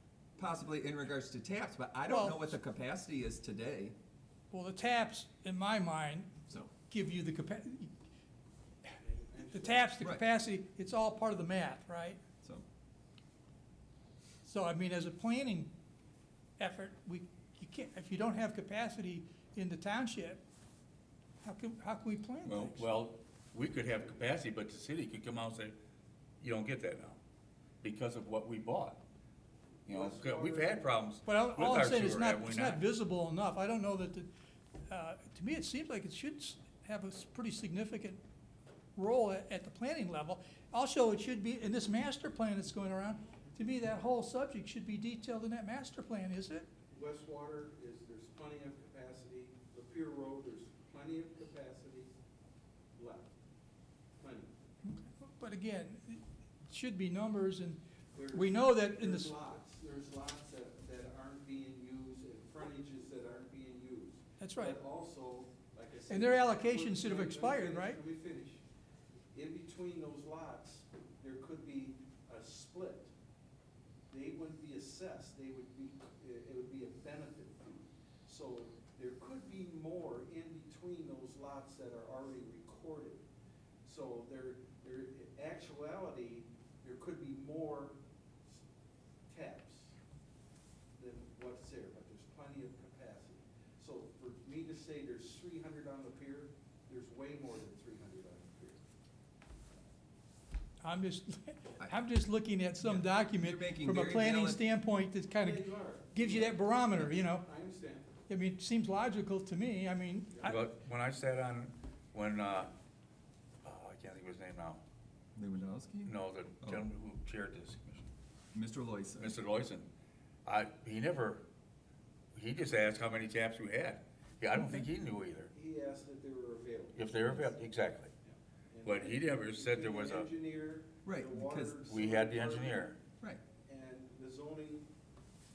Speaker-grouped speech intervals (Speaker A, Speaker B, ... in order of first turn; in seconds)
Speaker A: 0.4-4.0, 102.8-104.6, 115.4-116.9, 118.5-119.4, 131.1-131.8
Speaker B: 2.1-2.5, 4.5-7.9, 9.5-12.2, 14.4-15.7, 16.6-20.4, 21.4-22.9, 31.3-34.3, 34.9-38.2, 39.0-46.7, 54.9-57.8, 58.3-59.3, 64.4-64.8, 66.1-68.0, 100.8-107.4, 108.3-110.6, 124.6-124.9
Speaker C: 9.0-9.9, 29.9-30.9, 46.9-52.2, 53.0-53.3, 54.2-54.5, 58.1-68.6, 69.3-73.1, 74.1-83.2, 83.8-88.0, 89.3-90.0, 91.0-98.8, 105.4-108.1, 125.5-133.0, 133.7-134.9
Speaker D: 22.4-25.8, 26.4-27.2, 27.8-29.0, 29.9-32.8, 110.5-112.7, 113.6-114.8, 116.0-118.1, 119.2-119.9, 120.5-121.4, 122.3-125.5, 127.0-128.1, 128.8-130.3, 131.9-133.0